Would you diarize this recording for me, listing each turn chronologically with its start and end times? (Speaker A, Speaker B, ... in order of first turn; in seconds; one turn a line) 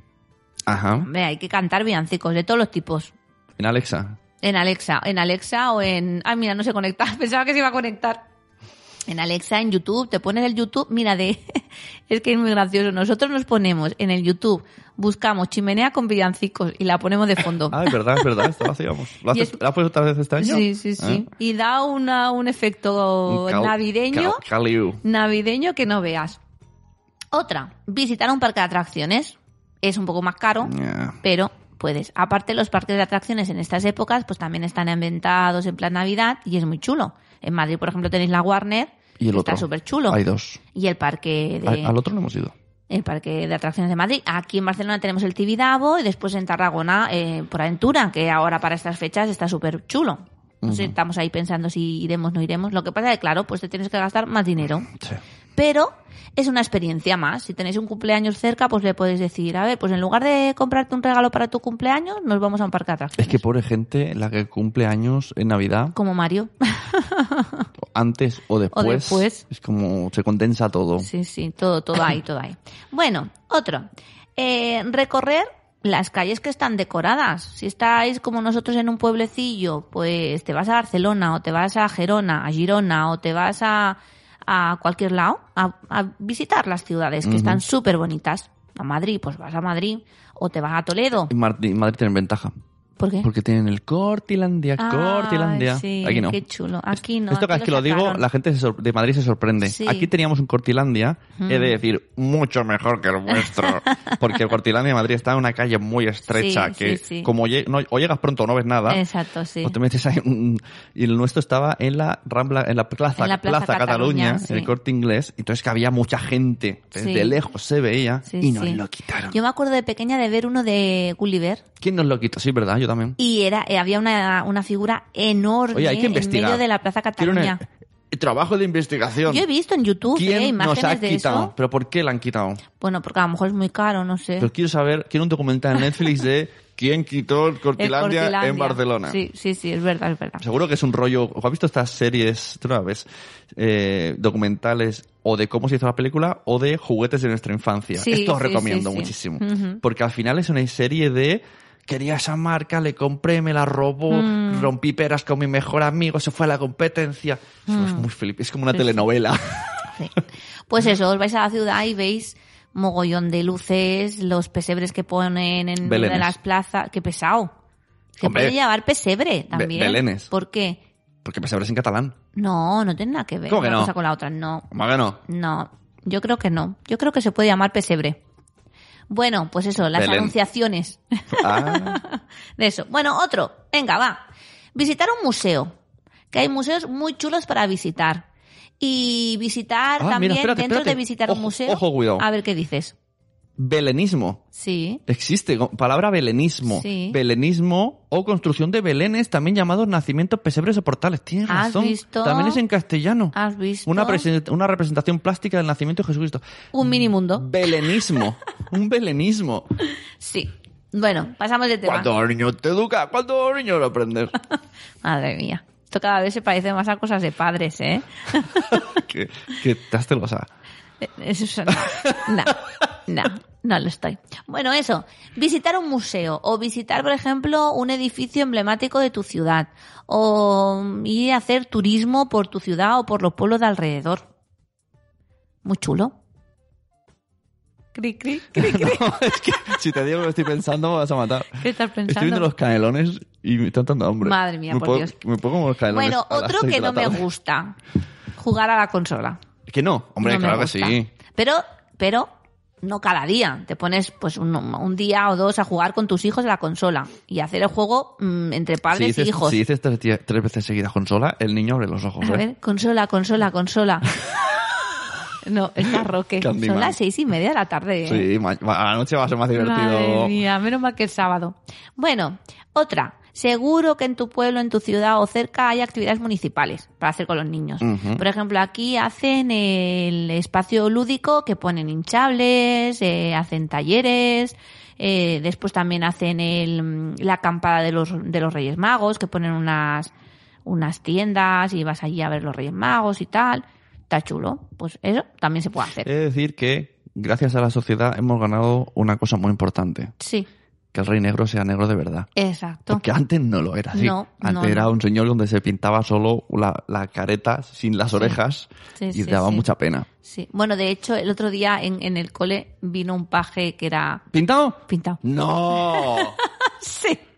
Speaker A: 0.7-1.1
Speaker B: 1.0-3.1
Speaker A: 3.6-4.2
Speaker B: 4.4-8.2
Speaker B: 9.1-18.5
Speaker A: 17.7-21.3
Speaker B: 19.3-19.6
Speaker B: 20.4-24.4
Speaker A: 23.3-25.0
Speaker B: 25.0-26.4
Speaker B: 27.3-40.2
Speaker A: 30.6-31.2
Speaker A: 39.2-40.6
Speaker B: 40.7-41.9
Speaker A: 41.6-42.5
Speaker B: 42.9-54.9
Speaker A: 50.6-50.9
Speaker B: 55.5-63.4
Speaker A: 63.2-66.0
Speaker B: 65.9-67.7
Speaker A: 67.8-71.1
Speaker B: 68.7-69.4
Speaker B: 71.0-91.3
Speaker A: 87.2-87.6
Speaker A: 91.3-92.5
Speaker B: 93.0-93.3
Speaker A: 93.2-96.4
Speaker B: 94.8-98.2
Speaker A: 97.3-109.0
Speaker B: 99.6-100.1
Speaker B: 101.4-101.7
Speaker B: 103.3-104.1
Speaker B: 106.3-107.3
Speaker B: 108.9-109.8
Speaker A: 109.6-119.4
Speaker B: 113.2-114.7
Speaker B: 116.9-117.3
Speaker B: 118.2-121.6
Speaker A: 121.8-123.2
Speaker B: 123.2-127.6
Speaker A: 125.7-126.6
Speaker A: 127.2-129.4
Speaker B: 129.2-131.5
Speaker A: 130.1-132.6
Speaker B: 132.8-134.5
Speaker A: 134.4-139.2
Speaker B: 137.8-140.4
Speaker A: 140.4-159.9
Speaker B: 147.9-149.8
Speaker B: 154.1-154.7
Speaker B: 157.7-158.1
Speaker B: 158.7-159.0
Speaker B: 160.7-167.5
Speaker A: 165.8-166.3
Speaker B: 168.2-170.8
Speaker A: 168.2-168.6
Speaker A: 169.5-170.3
Speaker A: 171.2-172.2
Speaker B: 172.3-174.7
Speaker A: 173.5-173.9
Speaker A: 174.7-175.2
Speaker B: 175.2-178.2
Speaker B: 179.1-185.7
Speaker A: 179.9-180.3
Speaker A: 181.3-182.0
Speaker B: 186.3-188.2
Speaker B: 188.8-192.9
Speaker A: 190.0-192.2
Speaker A: 193.6-194.4
Speaker B: 194.5-195.0
Speaker A: 195.1-209.7
Speaker B: 196.7-197.2
Speaker B: 201.5-202.6
Speaker B: 203.3-204.3
Speaker B: 206.7-207.5
Speaker B: 210.2-212.1
Speaker A: 211.8-214.3
Speaker B: 215.0-218.9
Speaker A: 218.7-220.5
Speaker B: 221.0-234.2
Speaker A: 221.7-222.5
Speaker B: 235.6-236.1
Speaker B: 237.9-239.1
Speaker A: 238.5-247.2
Speaker B: 241.6-242.5
Speaker B: 244.2-245.1
Speaker B: 245.9-247.8
Speaker B: 248.3-249.4
Speaker A: 249.7-251.1
Speaker B: 250.2-259.6
Speaker A: 258.9-262.4
Speaker B: 262.2-264.1
Speaker B: 265.4-268.3
Speaker A: 265.9-266.9
Speaker A: 268.0-270.4
Speaker B: 269.5-290.1
Speaker A: 277.8-278.2
Speaker B: 290.6-296.1
Speaker A: 296.0-300.1
Speaker B: 300.2-300.5
Speaker A: 300.9-302.3
Speaker B: 302.4-303.0
Speaker A: 302.9-310.1
Speaker B: 303.9-304.9
Speaker B: 309.0-309.7
Speaker B: 310.2-314.2
Speaker A: 314.3-316.4
Speaker B: 314.9-315.2
Speaker B: 315.7-317.2